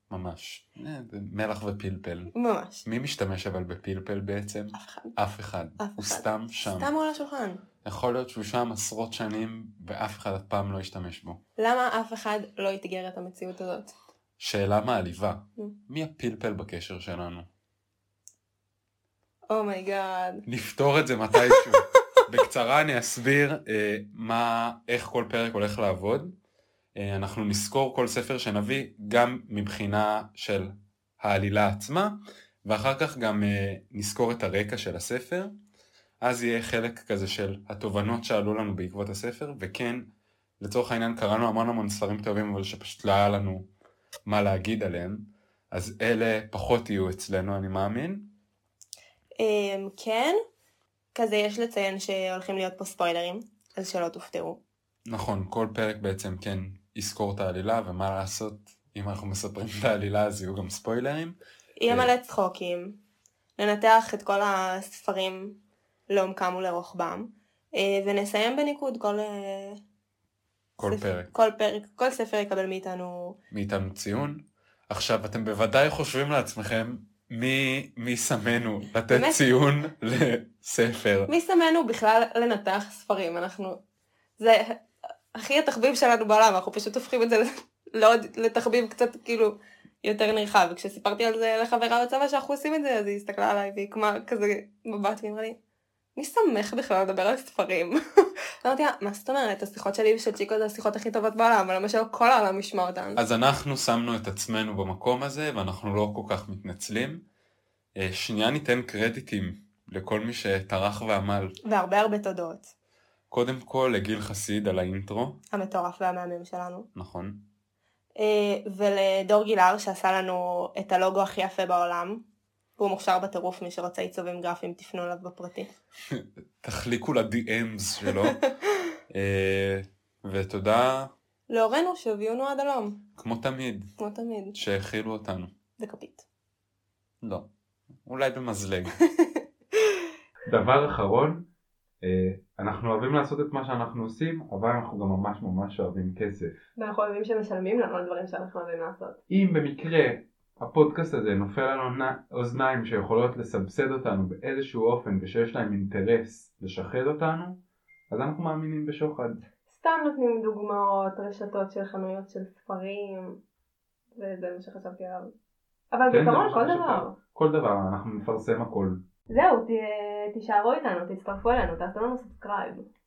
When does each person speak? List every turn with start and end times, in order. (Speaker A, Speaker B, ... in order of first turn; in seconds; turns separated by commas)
Speaker A: 0.1-2.3, Speaker B: 2.3-2.8, Speaker A: 2.8-6.9, Speaker B: 4.7-5.1, Speaker B: 5.8-7.6, Speaker A: 7.8-11.4, Speaker B: 11.6-13.9, Speaker A: 14.4-17.5, Speaker B: 19.5-20.4, Speaker A: 20.5-26.3, Speaker B: 21.5-21.8, Speaker A: 27.0-35.5, Speaker A: 36.2-40.0, Speaker A: 40.6-43.6, Speaker A: 44.3-48.3, Speaker B: 49.4-50.4, Speaker B: 51.1-54.6, Speaker A: 55.1-61.4, Speaker B: 61.8-63.0, Speaker B: 63.6-65.5, Speaker B: 66.1-69.8, Speaker A: 70.8-71.3, Speaker B: 70.8-73.4, Speaker A: 73.5-81.3, Speaker B: 79.1-79.4, Speaker B: 81.3-83.8, Speaker B: 84.4-84.8, Speaker B: 85.3-95.6, Speaker B: 96.2-98.0, Speaker B: 98.6-103.2, Speaker A: 103.2-107.2, Speaker A: 108.0-111.5, Speaker B: 111.6-112.7, Speaker A: 113.3-115.4, Speaker B: 115.5-116.9, Speaker A: 117.0-117.4, Speaker B: 118.2-122.2, Speaker B: 122.8-125.7, Speaker A: 126.1-128.4, Speaker A: 129.1-131.1, Speaker B: 131.5-133.0, Speaker A: 133.2-133.9, Speaker B: 134.0-134.6, Speaker A: 134.6-135.5, Speaker B: 135.8-136.2, Speaker A: 137.2-137.5, Speaker A: 138.0-139.0, Speaker B: 139.0-139.4, Speaker A: 140.4-141.4, Speaker A: 142.0-146.6, Speaker B: 146.8-149.2, Speaker A: 149.3-157.6, Speaker A: 158.1-159.4, Speaker B: 159.7-163.4, Speaker B: 164.1-165.3, Speaker B: 165.9-167.1, Speaker A: 166.1-169.0, Speaker B: 169.3-172.9